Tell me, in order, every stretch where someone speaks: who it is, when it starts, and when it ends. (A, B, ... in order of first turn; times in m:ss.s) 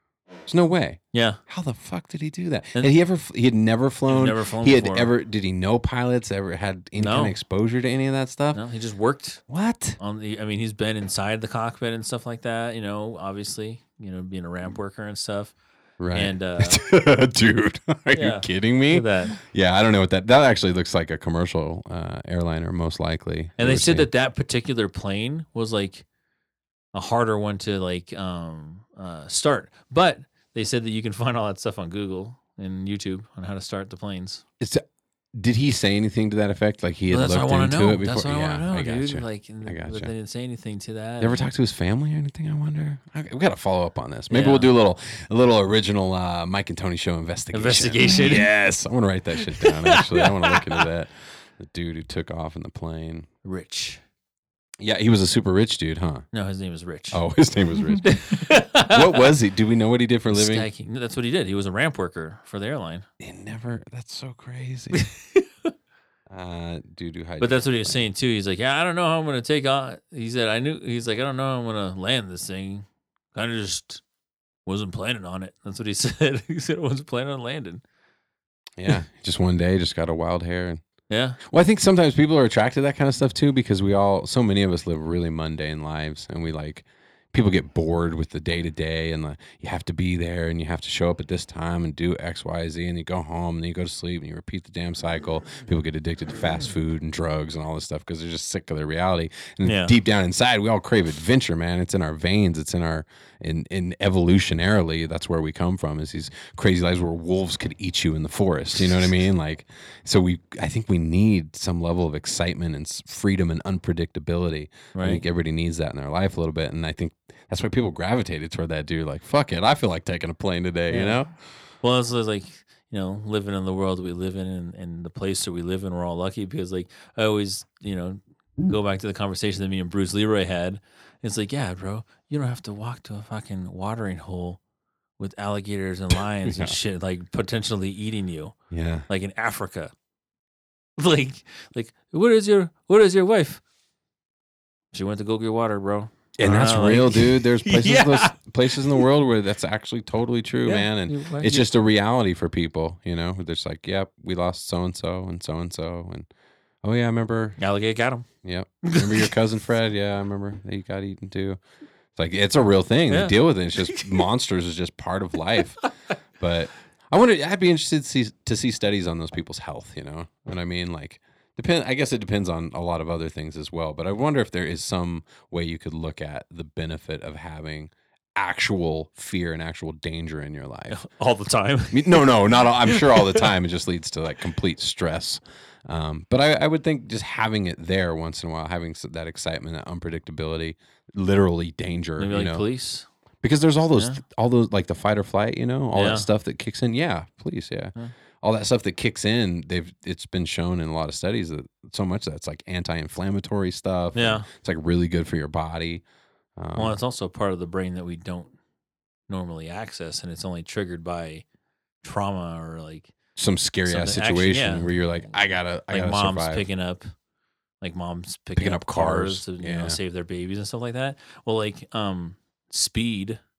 0:00.4-0:08.6 A
0:01.1-0:01.4 B
0:04.1-0:05.1 B
0:07.0-0:07.3 B
0:08.5-0:09.4 B
0:09.5-0:10.0 A
0:10.0-0:15.5 B
0:16.0-0:24.1 A
0:16.1-0:16.8 B
0:18.1-0:19.4 B
0:23.6-0:26.0 B
0:26.9-0:34.4 B
0:35.3-0:40.1 A
0:37.1-0:41.4 B
0:41.2-0:53.3 A
0:44.3-0:44.7 B
0:47.5-0:48.6 B
0:49.4-0:50.8 B
0:53.4-0:54.0 B
0:54.8-0:56.2 A
0:56.3-0:57.2 B
0:57.1-0:58.2 A
0:58.0-0:59.3 B
0:58.8-1:00.7 A
1:00.3-1:03.0 B
1:03.2-1:05.0 A
1:04.9-1:05.7 B
1:06.3-1:08.0 A
1:07.4-1:14.0 B
1:14.6-1:17.8 B
1:18.8-1:20.8 A
1:21.1-1:21.4 B
1:21.4-2:01.3 A
1:39.6-1:39.9 B
1:54.9-1:55.2 B
2:00.9-2:01.2 B
2:01.8-2:14.6 B
2:15.2-2:18.6 B
2:16.4-2:16.8 A
2:18.7-2:19.0 A
2:19.1-2:19.9 B
2:21.0-2:23.6 B
2:24.9-2:29.0 B
2:26.4-2:36.3 A
2:30.6-2:31.7 B
2:36.8-2:37.6 A
2:37.6-2:38.3 B
2:38.4-2:41.6 A
2:38.8-2:39.3 B
2:42.1-2:45.8 A
2:43.1-2:44.2 B
2:46.4-3:01.0 A
3:00.9-3:03.5 B
3:01.9-3:12.6 A
3:12.2-3:13.0 B
3:13.4-3:26.0 A
3:15.9-3:16.3 B
3:24.1-3:24.5 B
3:26.6-3:27.0 A
3:26.8-3:28.5 B
3:29.3-3:31.4 B
3:32.0-3:33.1 B
3:33.4-3:36.7 A
3:33.8-3:35.0 B
3:35.9-3:37.1 B
3:37.8-3:43.4 B
3:38.6-3:40.0 A